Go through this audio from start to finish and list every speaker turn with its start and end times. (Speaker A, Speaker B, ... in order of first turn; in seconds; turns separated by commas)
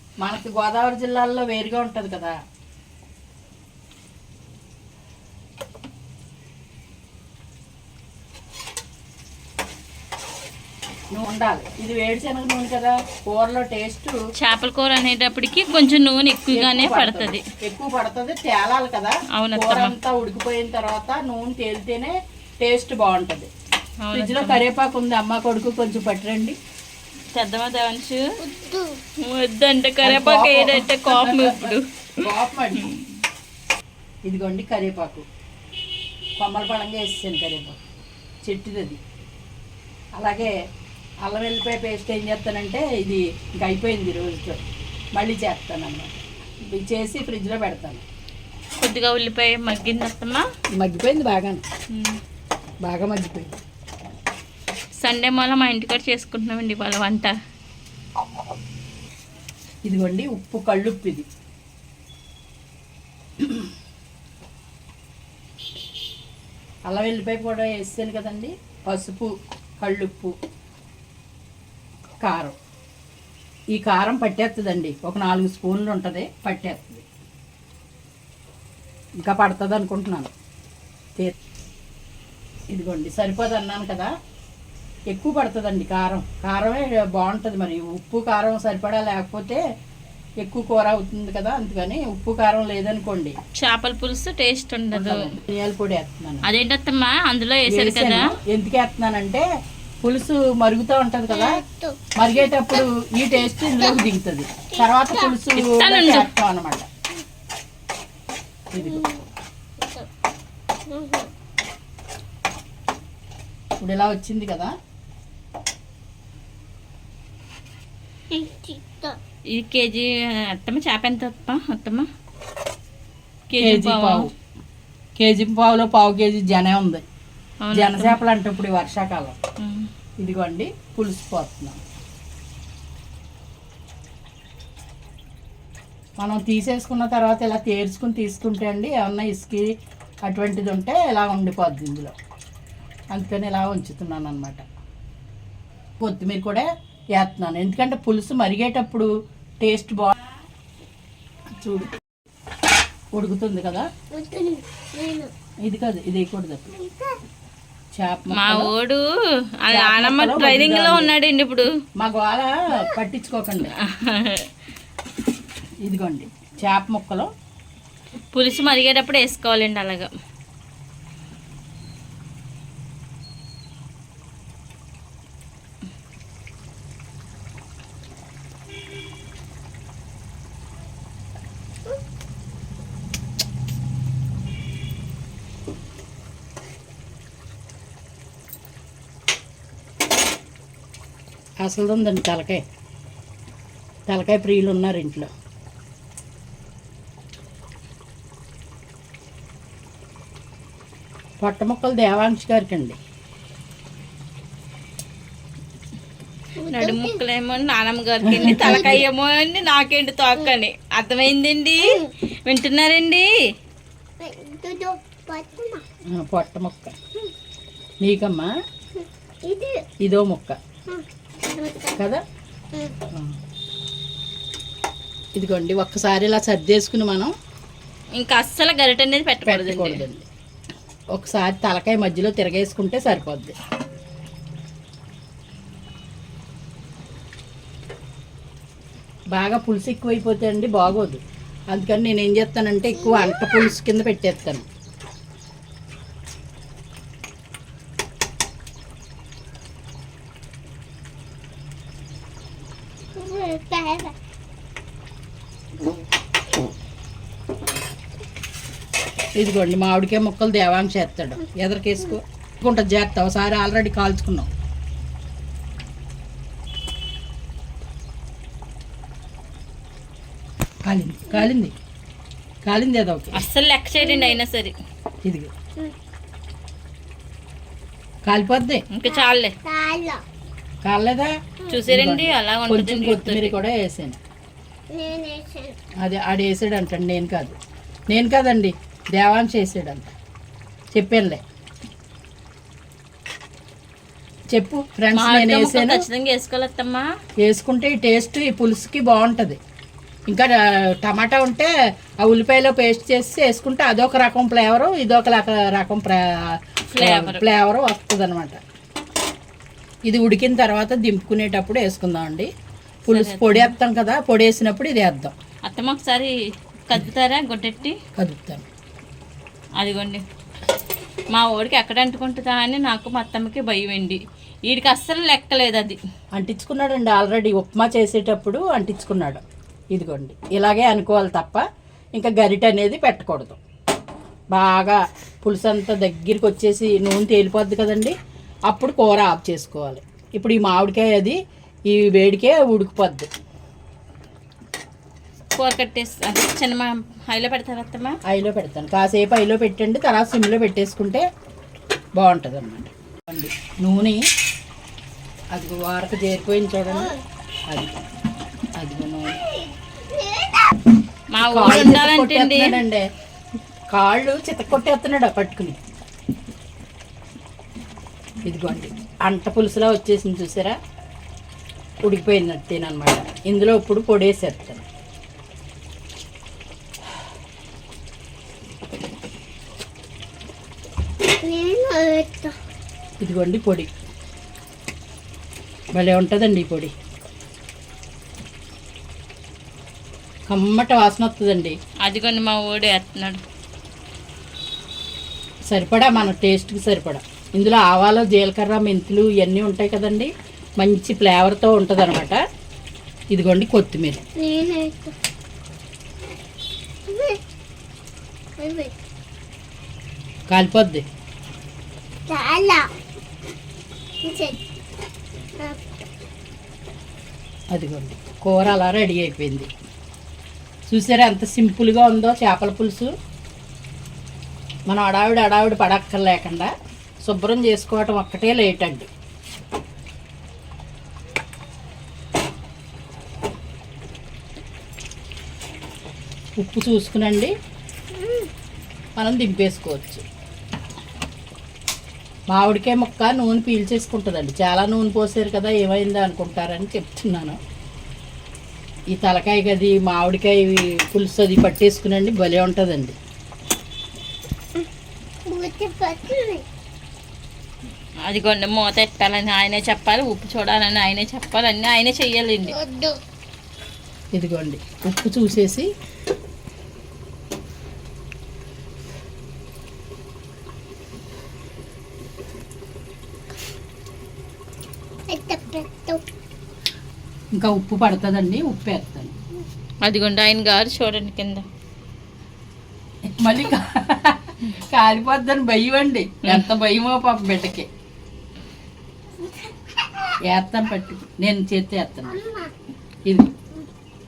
Speaker A: 0.2-2.4, Speaker A: 11.1-14.2, Speaker B: 14.4-17.4, Speaker A: 16.5-23.5, Speaker B: 19.4-20.0, Speaker B: 24.0-24.6, Speaker A: 24.1-26.6, Speaker B: 27.3-28.2, Speaker C: 28.4-29.0, Speaker B: 29.2-31.9, Speaker A: 30.0-32.9, Speaker A: 34.3-35.2, Speaker A: 36.4-37.8, Speaker A: 38.4-39.0, Speaker A: 40.2-40.5, Speaker A: 41.2-44.6, Speaker A: 45.1-48.0, Speaker B: 48.8-50.5, Speaker A: 50.8-51.6, Speaker A: 52.8-53.6, Speaker B: 55.0-57.3, Speaker A: 59.9-61.3, Speaker A: 63.4-63.7, Speaker A: 66.9-70.3, Speaker A: 72.2-72.6, Speaker A: 73.7-77.1, Speaker A: 79.2-80.3, Speaker A: 82.7-84.1, Speaker A: 85.1-89.6, Speaker A: 90.4-93.4, Speaker B: 93.6-95.3, Speaker A: 94.9-96.5, Speaker B: 96.5-98.3, Speaker A: 97.7-99.5, Speaker A: 100.0-101.6, Speaker C: 101.3-102.2, Speaker A: 102.2-106.9, Speaker C: 103.6-104.0, Speaker C: 104.7-105.3, Speaker B: 105.5-106.3, Speaker A: 108.7-109.0, Speaker C: 108.8-109.2, Speaker C: 109.8-110.1, Speaker C: 110.9-111.3, Speaker A: 113.8-114.7, Speaker C: 118.3-119.2, Speaker B: 119.5-122.1, Speaker B: 123.5-124.3, Speaker A: 123.6-124.3, Speaker A: 125.2-127.0, Speaker B: 127.6-128.2, Speaker A: 127.7-129.4, Speaker B: 129.6-129.9, Speaker A: 130.2-131.8, Speaker A: 136.2-139.7, Speaker A: 140.3-142.1, Speaker A: 143.1-144.6, Speaker A: 146.0-146.7, Speaker A: 147.2-149.1, Speaker A: 149.6-150.2, Speaker A: 151.6-151.9, Speaker A: 153.1-153.9, Speaker C: 154.1-155.3, Speaker A: 155.7-156.7, Speaker C: 156.7-157.2, Speaker A: 157.9-158.7, Speaker B: 158.3-159.0, Speaker B: 159.6-161.7, Speaker A: 159.7-161.2, Speaker A: 162.0-163.7, Speaker B: 163.8-164.5, Speaker A: 165.8-167.3, Speaker B: 168.3-170.1, Speaker A: 191.6-192.6, Speaker A: 194.1-195.3, Speaker A: 201.4-203.0, Speaker C: 206.6-207.2, Speaker B: 206.7-213.3, Speaker A: 208.2-209.0, Speaker C: 208.5-209.0, Speaker C: 211.8-212.1, Speaker C: 214.2-215.8, Speaker A: 216.1-217.0, Speaker A: 218.0-218.5, Speaker C: 219.0-219.8, Speaker A: 220.0-220.6, Speaker C: 220.9-222.0, Speaker A: 222.0-222.2, Speaker A: 225.4-227.3, Speaker B: 228.2-230.0, Speaker A: 229.4-230.3, Speaker A: 231.1-233.6, Speaker A: 239.3-244.7, Speaker C: 243.0-243.7, Speaker C: 253.2-254.1, Speaker A: 259.4-264.5, Speaker A: 270.9-271.7, Speaker A: 272.6-273.4, Speaker B: 273.3-274.7, Speaker C: 274.0-274.4, Speaker A: 275.2-275.5, Speaker A: 278.3-278.9, Speaker B: 278.9-279.5, Speaker C: 279.0-280.2, Speaker A: 280.8-281.3, Speaker B: 281.7-283.6, Speaker A: 281.9-284.2, Speaker C: 284.9-285.8, Speaker A: 286.0-287.6, Speaker A: 288.1-290.1, Speaker A: 290.9-291.4, Speaker A: 294.5-296.1, Speaker B: 295.1-297.1, Speaker A: 297.4-299.6, Speaker A: 300.3-308.6, Speaker B: 306.9-307.4, Speaker A: 310.1-312.5, Speaker A: 313.1-315.4, Speaker B: 313.1-313.7, Speaker B: 315.6-316.3, Speaker B: 316.9-318.0, Speaker A: 318.2-318.6, Speaker B: 319.8-320.2, Speaker B: 321.3-326.0, Speaker A: 326.3-329.4, Speaker A: 329.9-331.6, Speaker A: 332.2-333.6, Speaker A: 334.5-338.1, Speaker A: 338.7-343.3, Speaker B: 345.6-348.2, Speaker A: 348.2-351.2, Speaker A: 352.2-354.2, Speaker A: 355.5-357.1, Speaker C: 356.9-357.2, Speaker A: 358.8-359.4, Speaker C: 359.4-360.8, Speaker B: 361.3-362.8, Speaker A: 361.4-363.1, Speaker A: 363.9-365.8, Speaker A: 368.5-370.8, Speaker A: 372.0-374.9, Speaker C: 381.4-382.6, Speaker A: 383.2-383.9, Speaker A: 385.9-386.9, Speaker A: 390.5-391.8, Speaker B: 392.0-393.4, Speaker A: 395.7-402.4, Speaker A: 403.3-404.2, Speaker C: 404.4-405.1, Speaker C: 407.1-407.4, Speaker C: 408.6-408.9, Speaker A: 410.5-411.0, Speaker C: 412.3-412.8, Speaker C: 414.2-414.6, Speaker A: 417.7-419.7, Speaker A: 420.9-423.1, Speaker A: 424.9-426.7, Speaker A: 427.2-429.1, Speaker A: 436.6-437.5, Speaker C: 438.1-438.5, Speaker A: 439.2-440.2, Speaker A: 442.5-447.6, Speaker A: 449.1-453.2, Speaker C: 455.5-456.6, Speaker B: 458.3-462.8, Speaker C: 462.7-463.2, Speaker A: 464.3-465.9, Speaker C: 475.3-476.2, Speaker A: 477.5-479.3, Speaker B: 480.0-481.7, Speaker A: 483.3-487.9, Speaker C: 489.4-489.7, Speaker A: 490.5-492.4, Speaker C: 492.4-492.7